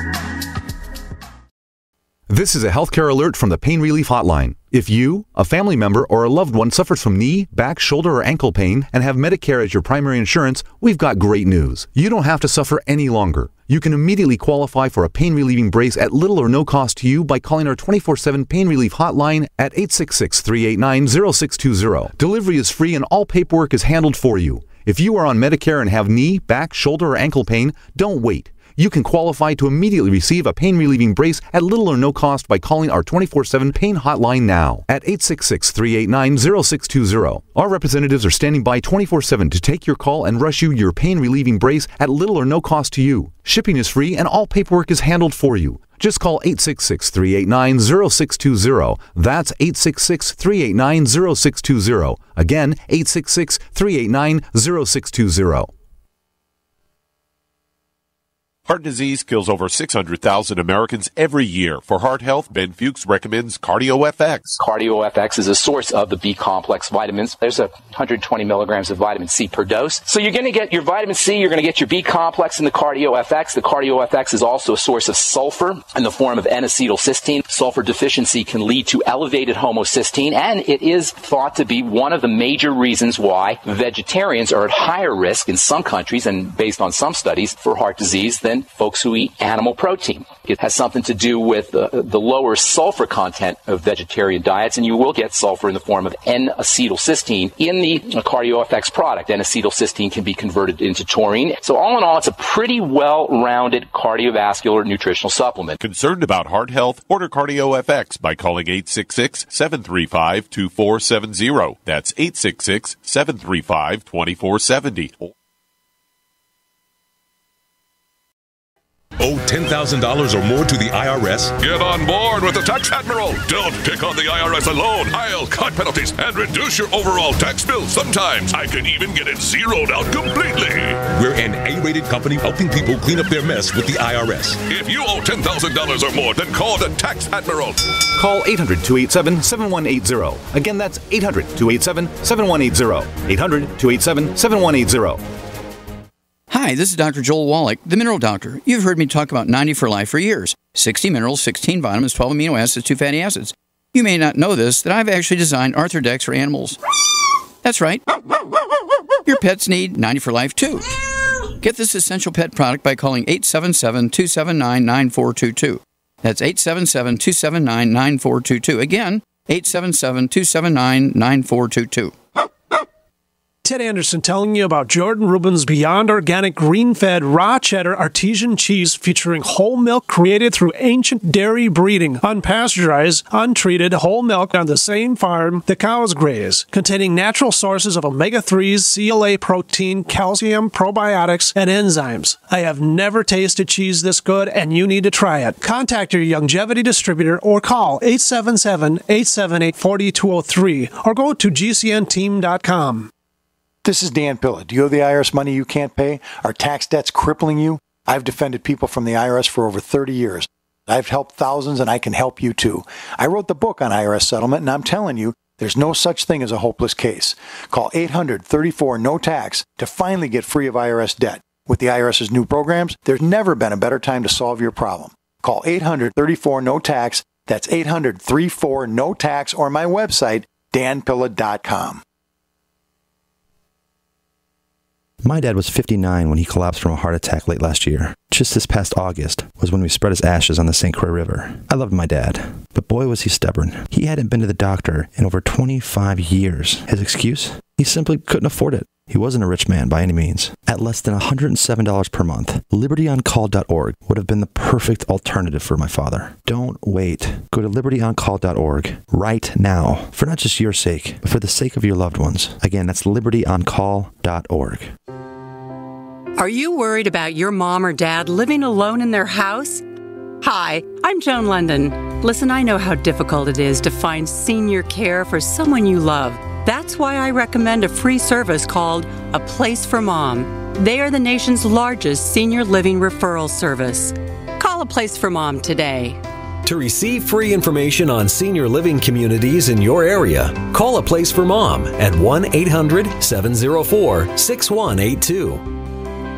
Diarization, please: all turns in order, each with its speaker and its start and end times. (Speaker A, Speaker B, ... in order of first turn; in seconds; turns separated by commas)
Speaker A: 2.3-55.7, Speaker B: 58.7-64.6, Speaker C: 64.6-105.8, Speaker B: 105.8-115.3, Speaker D: 119.2-121.5, Speaker E: 121.6-131.1, Speaker D: 131.2-134.6, Speaker E: 132.5-133.7, Speaker E: 134.6-137.8, Speaker A: 138.2-145.2, Speaker D: 140.4-141.0, Speaker D: 143.1-143.7, Speaker F: 146.5-156.8, Speaker F: 157.6-158.0, Speaker F: 159.2-160.9, Speaker F: 161.6-172.1, Speaker G: 173.6-203.1, Speaker H: 203.8-232.0, Speaker I: 235.2-264.9, Speaker J: 266.4-269.8, Speaker J: 270.4-286.2, Speaker K: 286.6-295.7